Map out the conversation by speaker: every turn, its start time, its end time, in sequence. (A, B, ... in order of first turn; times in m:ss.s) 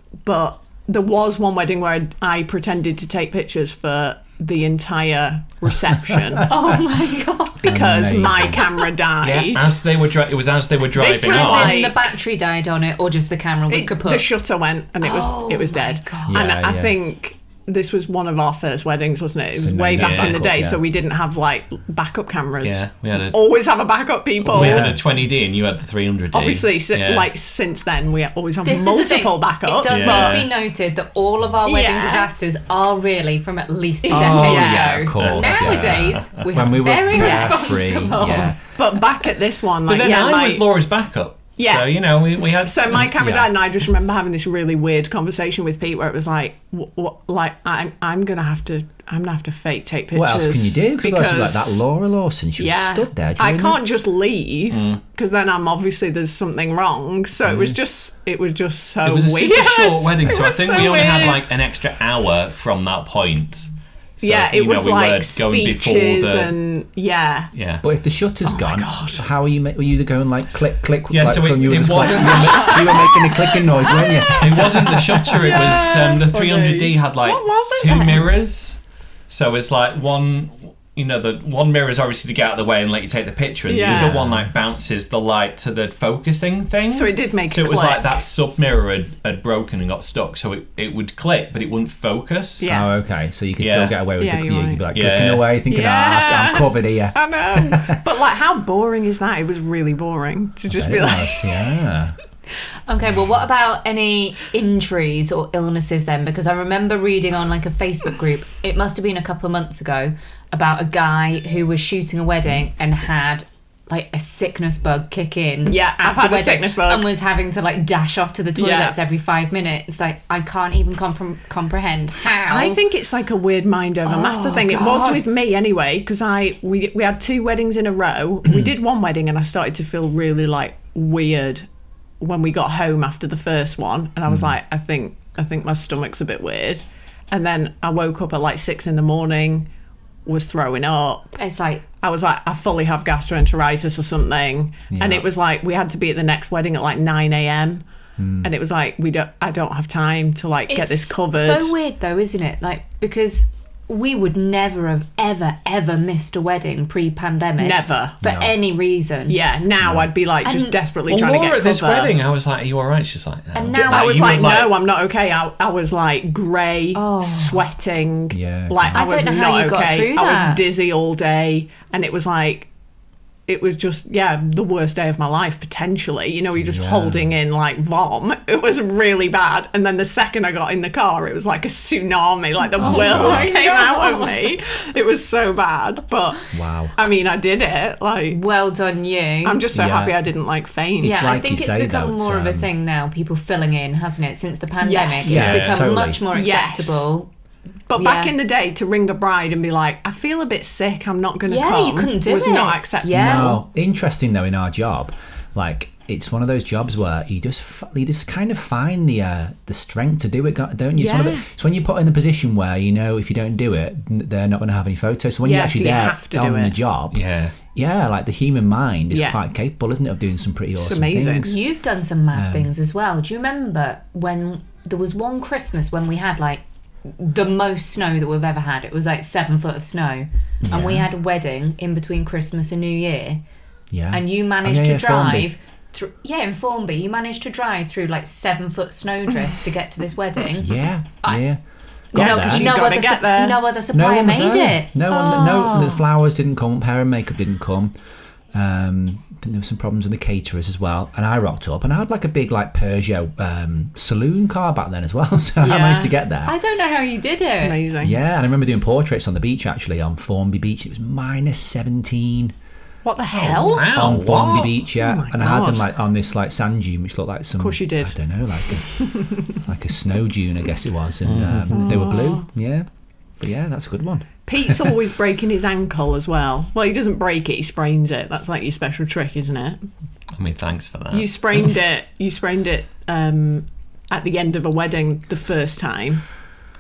0:00.2-0:06.5 A
0:06.4-0:07.7 B
0:07.6-0:09.8 A
0:07.6-0:08.7 C
0:09.2-0:11.9 D
0:10.9-0:12.0 A
0:11.2-0:14.3 B
0:13.7-0:25.0 A
0:15.0-0:16.5 B
0:16.3-0:17.0 C
0:19.6-0:20.8 C
0:20.0-0:20.4 D
0:22.6-0:23.5 D
0:24.4-0:27.3 D
0:24.5-0:25.0 C
0:26.3-0:30.4 A
0:28.6-0:38.6 B
0:29.9-0:30.5 D
0:31.6-0:32.3 A
0:34.0-0:35.1 A
0:34.1-0:38.6 C
0:35.2-0:36.5 D
0:37.1-0:37.9 A
0:38.8-0:40.7 A
0:39.9-0:43.1 D
0:41.6-0:41.9 A
0:42.6-0:51.8 A
0:43.1-0:43.5 C
0:50.1-0:53.8 C
0:52.6-1:01.5 A
0:54.7-0:55.0 D
0:57.4-0:57.8 C
0:59.0-1:06.6 D
1:04.2-1:07.5 A
1:07.5-1:07.8 D
1:07.8-1:15.6 C
1:08.5-1:09.2 A
1:11.1-1:13.2 D
1:12.3-1:18.3 A
1:14.3-1:32.7 D
1:23.7-1:24.2 A
1:23.9-1:24.5 C
1:26.9-1:28.2 A
1:32.6-1:32.9 A
1:32.6-1:38.0 C
1:33.6-1:34.0 D
1:34.2-1:34.8 A
1:34.9-1:35.5 D
1:35.7-1:41.8 A
1:40.7-1:42.2 C
1:42.9-2:02.8 B
1:55.7-1:57.1 A
1:58.6-1:59.0 A
2:02.5-2:11.7 A
2:04.1-2:05.3 B
2:12.2-2:19.7 A
2:20.3-2:21.4 A
2:21.4-2:21.8 B
2:22.0-2:27.8 A
2:24.9-2:25.3 C
2:28.2-2:28.5 C
2:28.4-2:31.7 A
2:30.7-2:39.4 B
2:37.6-2:38.2 A
2:38.2-2:38.6 C
2:39.3-2:42.2 A
2:39.8-2:40.1 C
2:40.4-2:40.8 B
2:41.1-2:44.8 D
2:43.5-2:44.4 B
2:43.8-2:52.7 A
2:47.0-2:47.7 B
2:48.3-2:49.0 C
2:48.9-2:50.6 B
2:53.5-3:08.4 A
2:56.6-2:57.4 C
3:02.7-3:04.5 B
3:02.8-3:03.6 C
3:06.5-3:07.0 C
3:08.3-3:09.6 B
3:09.4-3:11.2 A
3:09.7-3:10.2 C
3:11.0-3:12.7 C
3:11.0-3:17.3 B
3:14.8-3:15.6 A
3:15.2-3:16.2 C
3:15.3-3:15.8 D
3:16.2-3:17.1 A
3:17.9-3:23.6 A
3:17.9-3:18.3 B
3:21.5-3:23.6 B
3:23.1-3:37.2 C
3:31.0-3:31.4 A
3:35.4-3:36.8 A
3:37.1-3:37.6 D
3:37.7-3:41.6 C
3:39.1-3:39.4 A
3:40.8-3:41.6 A
3:41.4-3:53.4 B
3:42.3-3:42.7 C
3:50.6-3:51.1 C
3:53.9-3:55.5 C
3:54.1-4:01.4 B
4:00.6-4:01.6 C
4:02.1-4:02.7 C
4:02.1-4:03.6 A
4:02.1-4:04.9 B
4:03.9-4:07.9 C
4:05.1-4:06.0 A
4:08.5-4:16.6 C
4:15.6-4:16.1 A
4:16.4-4:17.8 B
4:17.6-4:18.2 A
4:18.0-4:22.6 C
4:23.0-4:25.9 A
4:23.3-4:24.8 D
4:23.9-4:32.9 C
4:27.6-4:28.2 A
4:28.9-4:29.6 A
4:31.2-4:32.0 D
4:31.7-4:32.5 A
4:33.4-4:35.0 C
4:34.5-4:39.8 A
4:40.3-4:41.8 D
4:41.1-4:46.2 A